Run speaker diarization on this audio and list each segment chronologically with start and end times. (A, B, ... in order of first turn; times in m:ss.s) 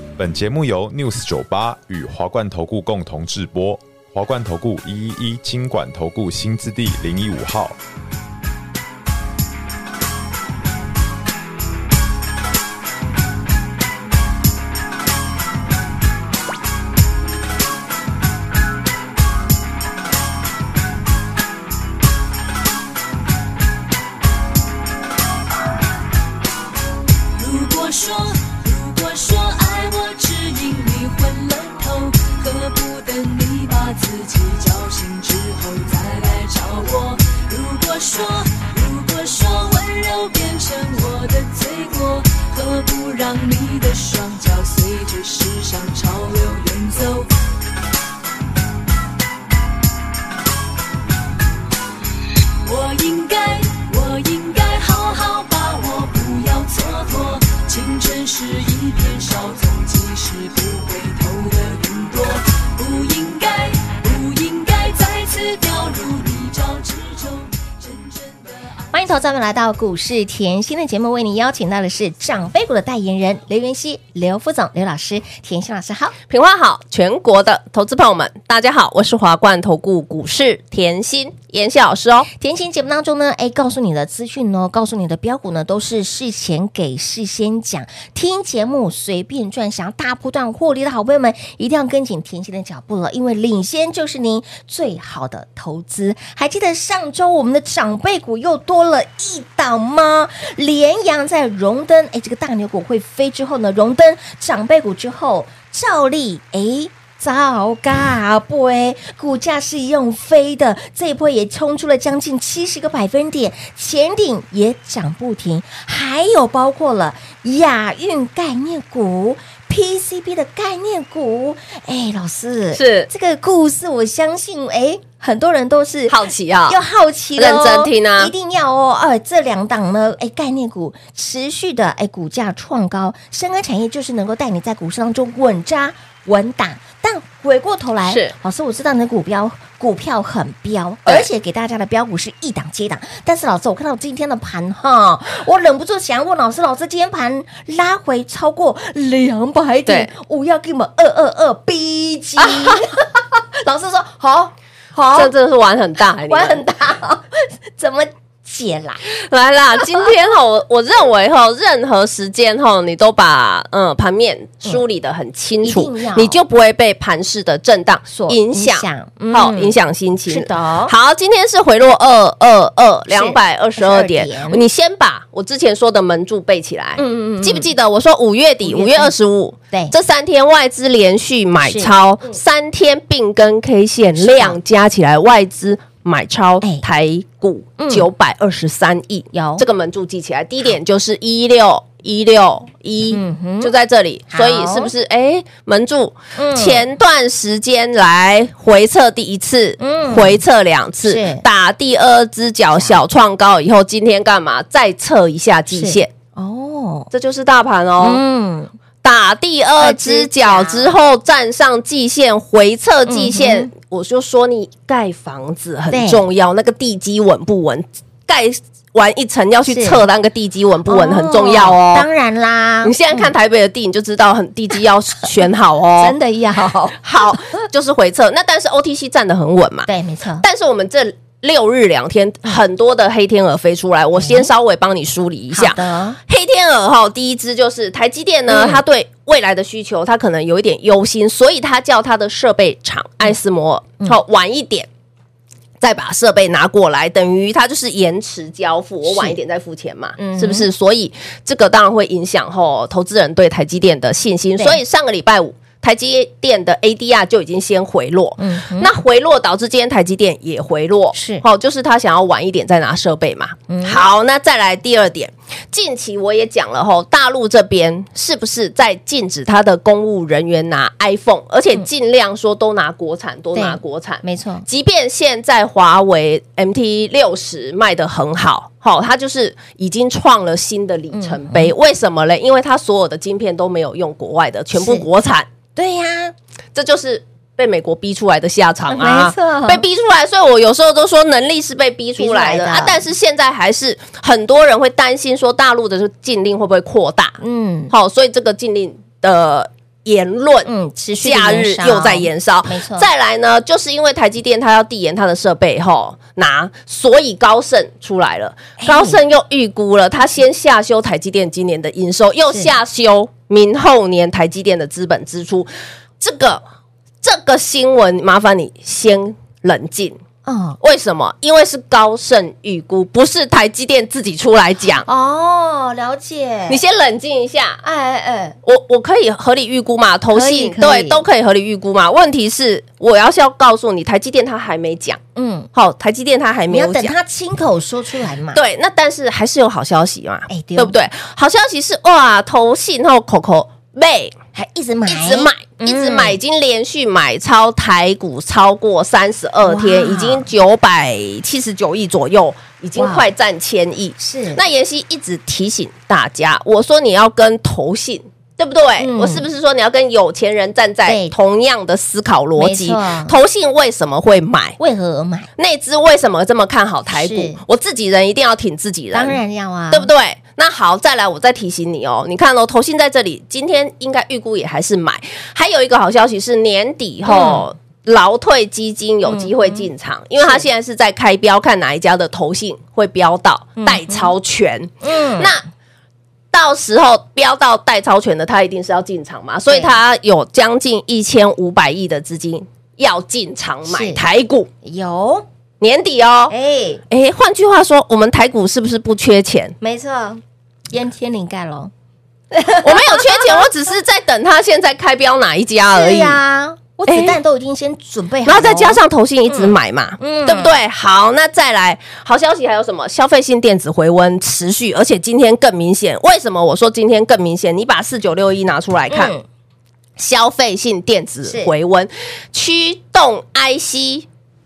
0:00.2-0:07.8 A
0:27.4-0:47.3 B
0:52.6-1:08.8 B
1:08.9-1:16.1 C
1:16.3-1:22.3 D
1:22.4-2:35.3 C
2:02.7-2:03.1 D
2:06.1-2:06.8 D
2:07.4-2:08.3 D
2:18.0-2:18.3 D
2:32.4-2:32.8 D
2:35.1-2:36.6 D
2:36.2-2:39.0 C
2:39.1-3:26.1 D
2:45.6-2:46.4 C
2:48.1-2:49.7 C
2:50.3-2:50.9 C
2:53.1-2:54.6 C
2:57.0-2:57.7 C
2:58.6-2:59.1 C
3:01.6-3:02.4 C
3:04.2-3:04.6 C
3:07.8-3:08.1 C
3:09.3-3:09.6 C
3:13.1-3:13.7 C
3:14.3-3:14.9 C
3:16.3-3:16.8 C
3:19.8-3:20.4 C
3:21.0-3:21.4 C
3:22.7-3:23.0 C
3:25.7-3:27.1 C
3:27.1-3:28.2 D
3:28.0-3:28.7 C
3:29.0-3:42.0 D
3:29.8-3:30.9 C
3:33.1-3:33.7 C
3:35.9-3:36.2 C
3:39.7-3:40.0 C
3:40.9-3:43.3 C
3:42.8-3:46.1 D
3:46.0-3:47.4 C
3:47.0-3:49.9 D
3:49.9-3:50.4 C
3:50.4-4:04.9 D
3:54.2-3:54.5 C
3:55.5-3:56.2 C
3:58.5-3:58.8 C
4:05.8-4:45.5 D
4:09.0-4:09.4 C
4:10.2-4:10.7 C
4:18.4-4:18.9 C
4:21.1-4:21.4 C
4:23.7-4:24.0 C
4:33.5-4:34.6 C
4:41.1-4:41.7 C
4:44.7-4:45.1 C
4:45.8-4:46.3 C
4:46.8-4:57.4 D
4:48.9-4:49.8 C
4:52.2-4:53.0 C
4:57.4-4:57.9 C
4:57.9-5:00.7 D
5:00.6-5:03.1 C
5:01.2-5:16.6 D
5:08.8-5:09.2 C
5:17.2-5:20.2 D
5:20.4-5:20.8 C
5:20.8-5:25.1 D
5:25.1-5:26.8 C
5:26.7-5:27.8 D
5:27.8-5:28.6 C
5:28.6-5:35.2 D
5:30.3-5:31.2 C
5:35.3-5:35.7 C
5:35.7-5:37.1 D
5:36.7-5:38.6 C
5:38.5-5:44.3 D
5:40.5-5:41.0 C
5:44.6-5:46.4 C
5:45.1-6:04.8 D
5:49.6-5:50.5 C
5:53.0-5:53.2 C
5:54.2-5:54.6 C
5:59.0-5:59.5 C
6:01.1-6:01.3 C
6:02.6-6:03.4 C
6:04.8-6:05.5 C
6:05.6-6:09.4 D
6:07.1-6:07.6 C
6:09.1-6:10.1 C
6:09.9-6:25.6 D
6:17.3-6:17.6 C
6:19.2-6:19.9 C
6:20.4-6:20.6 C
6:23.8-6:24.3 C
6:25.0-6:25.6 C
6:26.5-6:34.7 D
6:29.7-6:29.9 C
6:33.8-6:34.2 C
6:34.8-6:35.4 C
6:35.8-6:36.5 D
6:36.5-6:37.0 C
6:37.1-6:39.8 D
6:39.8-6:41.9 C
6:42.5-6:43.7 C
6:42.8-6:46.4 D
6:45.9-6:50.8 C
6:47.1-6:47.4 D
6:48.4-6:59.3 D
6:59.1-6:59.4 C
7:00.2-7:04.3 D
7:01.4-7:01.7 C